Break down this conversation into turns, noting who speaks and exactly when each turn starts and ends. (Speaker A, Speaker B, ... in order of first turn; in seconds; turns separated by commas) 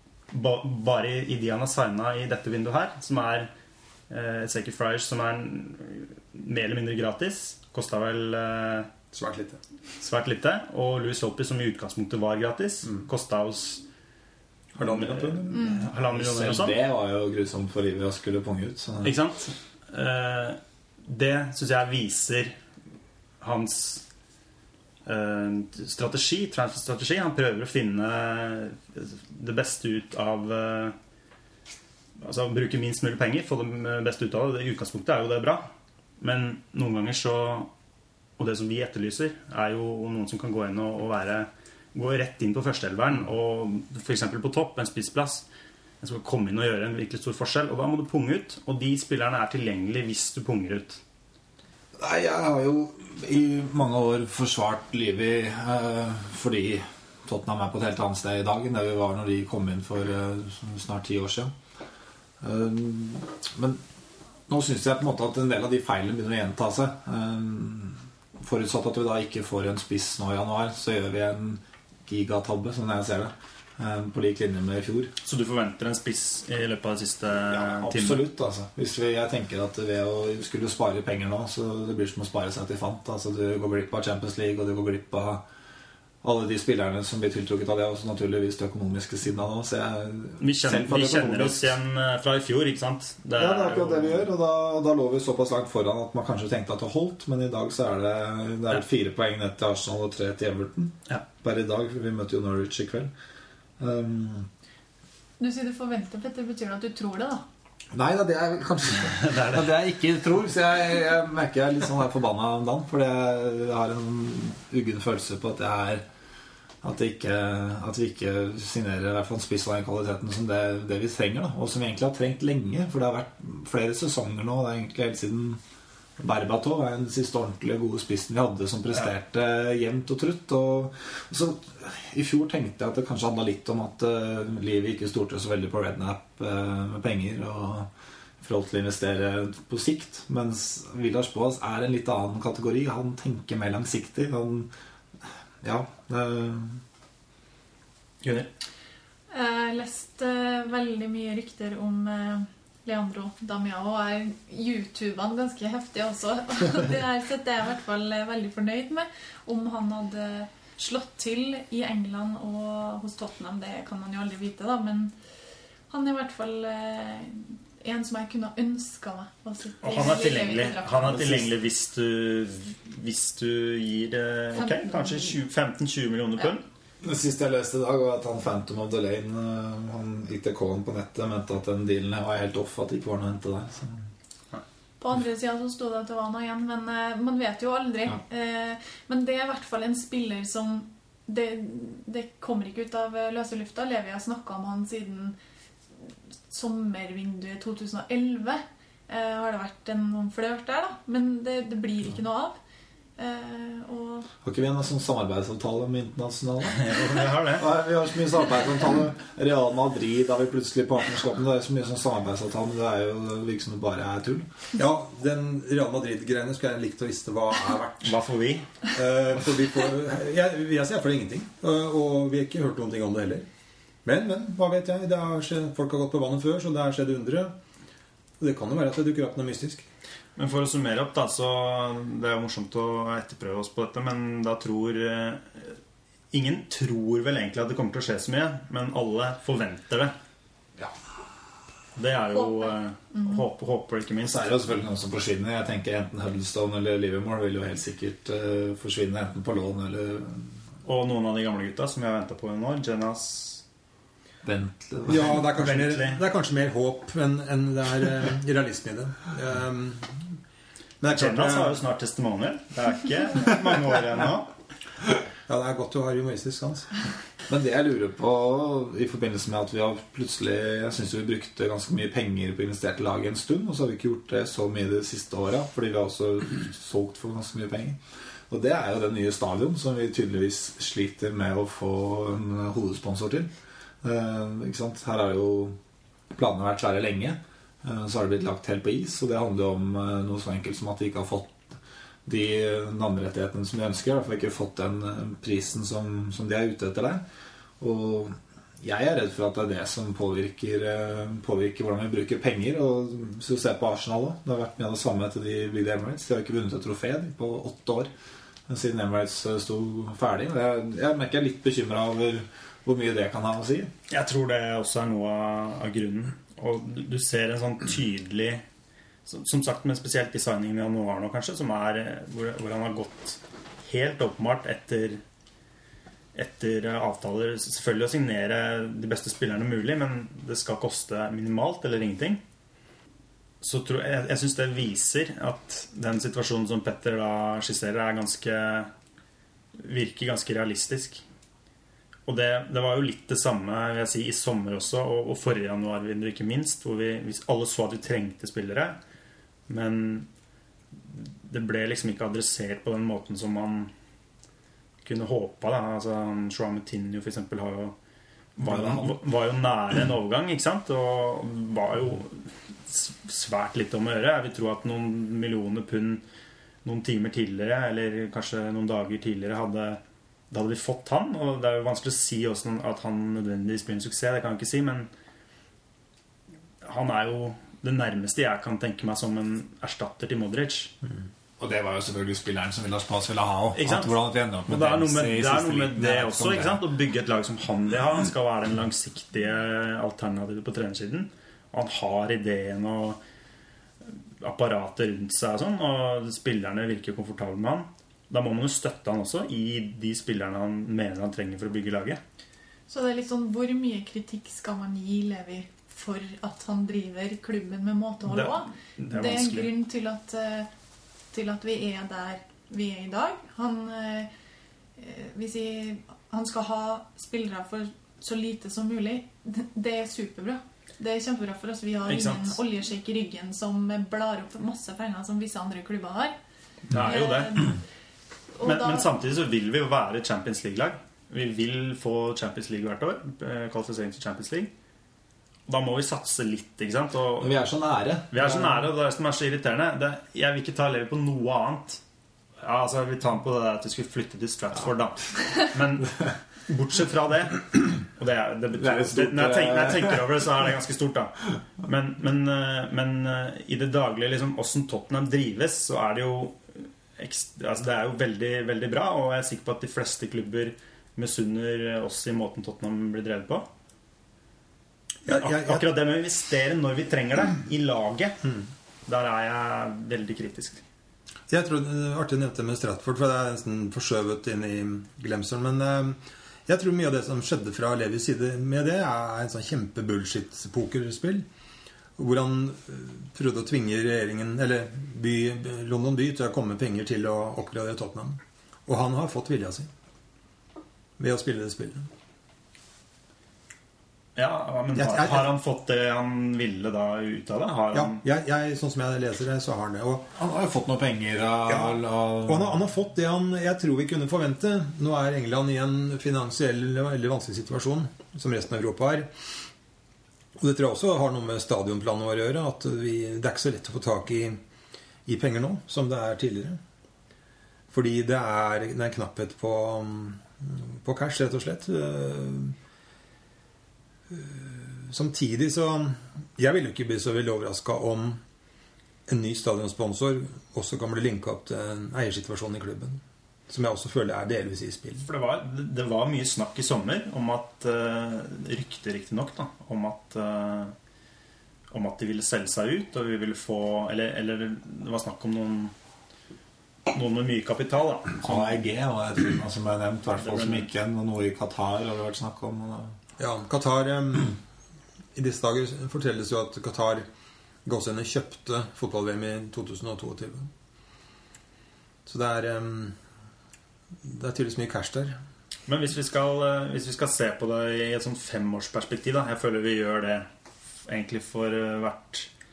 Speaker A: 0.3-3.5, Speaker A: 4.1-8.9, Speaker B: 9.1-9.6, Speaker A: 10.0-13.8, Speaker B: 14.8-15.7, Speaker A: 14.8-16.8, Speaker C: 15.5-15.9, Speaker D: 16.1-19.1, Speaker A: 19.0-22.6, Speaker A: 23.4-24.0, Speaker A: 25.1-31.0, Speaker A: 32.2-35.7, Speaker A: 36.2-37.7, Speaker A: 38.4-45.5, Speaker A: 46.0-51.0, Speaker D: 52.0-61.5, Speaker D: 62.4-63.8, Speaker D: 64.5-75.1, Speaker A: 75.2-78.2, Speaker D: 77.5-85.5, Speaker D: 86.2-91.8, Speaker A: 90.4-94.3, Speaker D: 93.4-103.1, Speaker D: 103.8-104.5, Speaker C: 105.4-107.4, Speaker D: 107.9-116.0, Speaker A: 109.0-109.7, Speaker D: 116.8-125.6, Speaker D: 126.2-137.9, Speaker D: 138.4-144.7, Speaker D: 145.6-146.8, Speaker A: 148.2-148.5, Speaker C: 149.3-165.2, Speaker C: 165.9-171.2, Speaker A: 169.8-176.7, Speaker D: 171.0-171.4, Speaker C: 174.5-175.4, Speaker D: 177.0-184.1, Speaker C: 185.0-195.4, Speaker C: 196.5-202.6, Speaker C: 203.2-204.3, Speaker D: 204.4-214.5, Speaker A: 206.8-207.7, Speaker B: 214.8-218.2, Speaker A: 218.0-218.7, Speaker B: 218.9-223.5, Speaker B: 224.1-227.6, Speaker B: 228.4-229.9, Speaker A: 230.4-235.8, Speaker A: 236.3-240.1, Speaker A: 242.0-244.5, Speaker C: 242.3-243.4, Speaker D: 244.2-250.5, Speaker A: 250.8-253.6, Speaker D: 254.4-255.4, Speaker B: 255.1-260.3, Speaker A: 255.1-256.2, Speaker B: 261.0-261.8, Speaker A: 261.1-264.5, Speaker B: 265.5-266.9, Speaker D: 267.5-283.5, Speaker D: 284.0-285.8, Speaker D: 286.3-297.2, Speaker D: 297.8-308.1, Speaker D: 308.7-313.9, Speaker A: 314.1-318.6, Speaker A: 319.3-325.2, Speaker A: 326.4-332.4, Speaker A: 333.6-338.9, Speaker A: 339.8-341.2, Speaker A: 342.3-349.0, Speaker A: 349.7-350.3, Speaker A: 351.1-353.9, Speaker A: 355.0-358.0, Speaker D: 358.6-359.2, Speaker A: 358.6-366.2, Speaker A: 366.8-375.1, Speaker A: 376.8-380.9, Speaker D: 381.6-386.8, Speaker A: 383.8-393.2, Speaker A: 394.4-402.2, Speaker C: 402.9-410.7, Speaker A: 408.3-409.7, Speaker C: 411.3-414.3, Speaker C: 415.0-426.4, Speaker A: 422.1-422.6, Speaker A: 426.9-427.7, Speaker C: 427.0-427.8, Speaker C: 428.6-429.1, Speaker A: 428.6-434.7, Speaker A: 435.7-437.6, Speaker D: 437.4-438.9, Speaker A: 438.3-442.0, Speaker A: 442.6-463.7, Speaker D: 448.8-450.3, Speaker B: 465.3-465.9, Speaker A: 465.3-468.4, Speaker A: 469.1-470.8, Speaker B: 471.5-481.5, Speaker B: 482.2-489.9, Speaker B: 491.2-492.1, Speaker A: 494.4-498.2, Speaker B: 494.9-495.6, Speaker B: 497.9-500.3, Speaker D: 500.4-502.8, Speaker B: 501.7-509.3, Speaker B: 510.6-514.6, Speaker B: 515.3-516.8, Speaker B: 517.9-522.8, Speaker B: 524.3-528.4, Speaker B: 529.3-535.3, Speaker A: 535.2-541.0, Speaker A: 541.9-545.9, Speaker A: 547.1-548.8, Speaker D: 548.4-553.2, Speaker A: 550.3-550.9, Speaker B: 553.4-554.6, Speaker B: 555.4-557.3, Speaker B: 557.9-560.7, Speaker B: 562.3-563.2, Speaker B: 564.2-565.4, Speaker A: 565.9-570.5, Speaker A: 571.0-572.5